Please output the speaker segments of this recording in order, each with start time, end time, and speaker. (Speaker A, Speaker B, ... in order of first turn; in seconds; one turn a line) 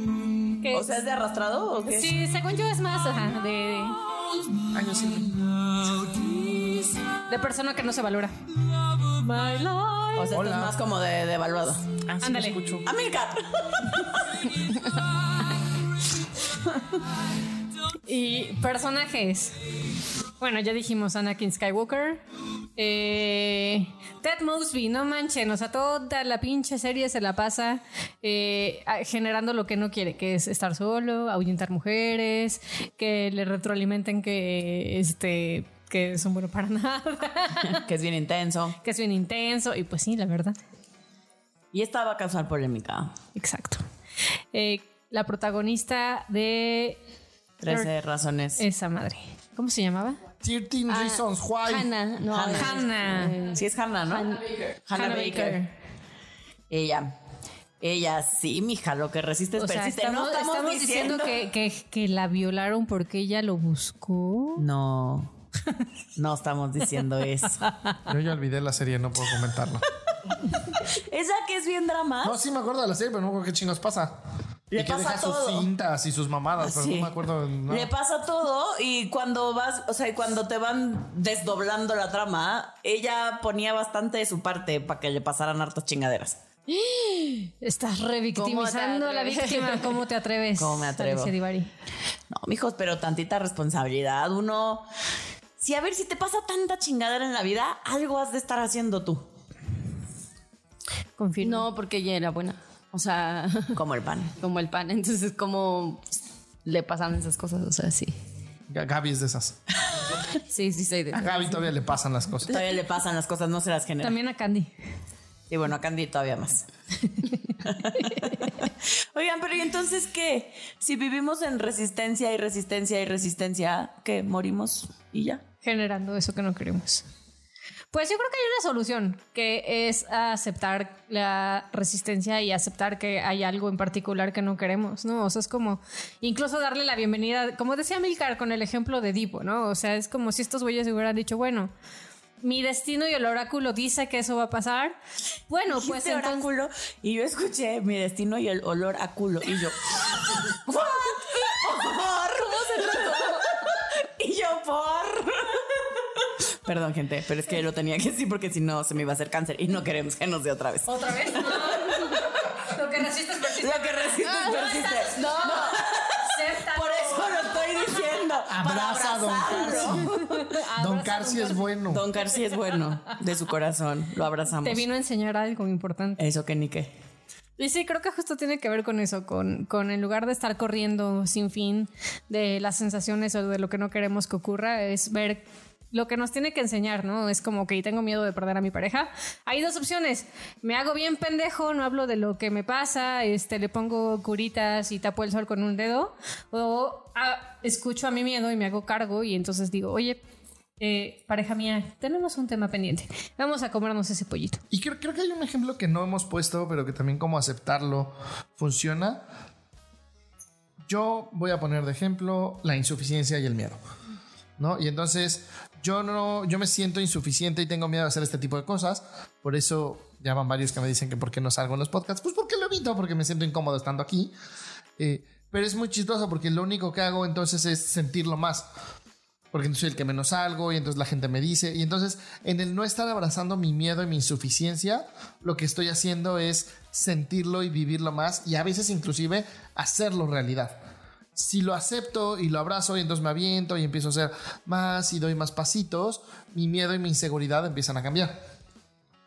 Speaker A: 0.5-2.2
Speaker B: 0.6-1.1
Speaker B: 1.9-4.0
Speaker C: 4.7-5.5
Speaker A: 6.0-6.9
Speaker B: 7.3-8.4
Speaker B: 9.0-10.4
Speaker A: 10.2-12.0
Speaker C: 10.3-10.8
Speaker C: 12.1-12.9
Speaker B: 12.2-12.7
Speaker A: 12.8-14.5
Speaker B: 18.1-19.6
Speaker B: 20.4-22.2
Speaker B: 22.8-37.9
Speaker A: 37.6-38.8
Speaker B: 38.8-40.6
Speaker A: 41.7-43.1
Speaker B: 43.4-43.8
Speaker B: 44.5-47.0
Speaker A: 47.6-48.6
Speaker B: 48.6-50.2
Speaker C: 50.4-51.9
Speaker D: 50.9-54.8
Speaker A: 52.3-52.8
Speaker B: 52.5-53.4
Speaker A: 53.4-55.6
Speaker B: 55.0-55.7
Speaker A: 56.7-57.1
Speaker A: 57.8-61.4
Speaker B: 59.6-64.7
Speaker A: 64.6-65.3
Speaker A: 66.2-67.7
Speaker B: 67.7-68.0
Speaker C: 68.1-69.9
Speaker A: 70.7-72.4
Speaker C: 72.2-74.2
Speaker A: 74.7-75.7
Speaker C: 74.7-77.9
Speaker A: 76.6-86.4
Speaker B: 86.7-91.7
Speaker D: 88.3-89.9
Speaker A: 90.6-91.3
Speaker A: 92.3-94.9
Speaker A: 95.6-99.3
Speaker B: 101.2-101.7
Speaker D: 101.4-103.8
Speaker A: 103.8-104.3
Speaker D: 104.4-106.1
Speaker D: 106.7-108.1
Speaker C: 108.7-109.6
Speaker D: 110.5-111.7
Speaker C: 111.2-112.5
Speaker A: 112.5-114.2
Speaker B: 114.0-114.7
Speaker A: 115.5-116.7
Speaker A: 117.6-125.4
Speaker B: 118.0-118.3
Speaker B: 125.6-127.0
Speaker B: 127.9-141.7
Speaker B: 142.4-145.0
Speaker B: 145.5-146.5
Speaker A: 145.7-162.2
Speaker D: 152.5-153.5
Speaker B: 160.9-168.1
Speaker A: 163.6-170.4
Speaker D: 165.1-165.7
Speaker C: 168.5-170.1
Speaker B: 169.4-171.7
Speaker C: 170.8-172.1
Speaker A: 171.9-174.8
Speaker B: 174.6-176.2
Speaker A: 176.2-176.9
Speaker B: 177.6-200.2
Speaker B: 200.8-204.6
Speaker C: 204.7-209.2
Speaker C: 210.9-213.8
Speaker C: 214.6-224.3
Speaker C: 225.0-228.7
Speaker C: 229.5-240.8
Speaker C: 241.4-248.4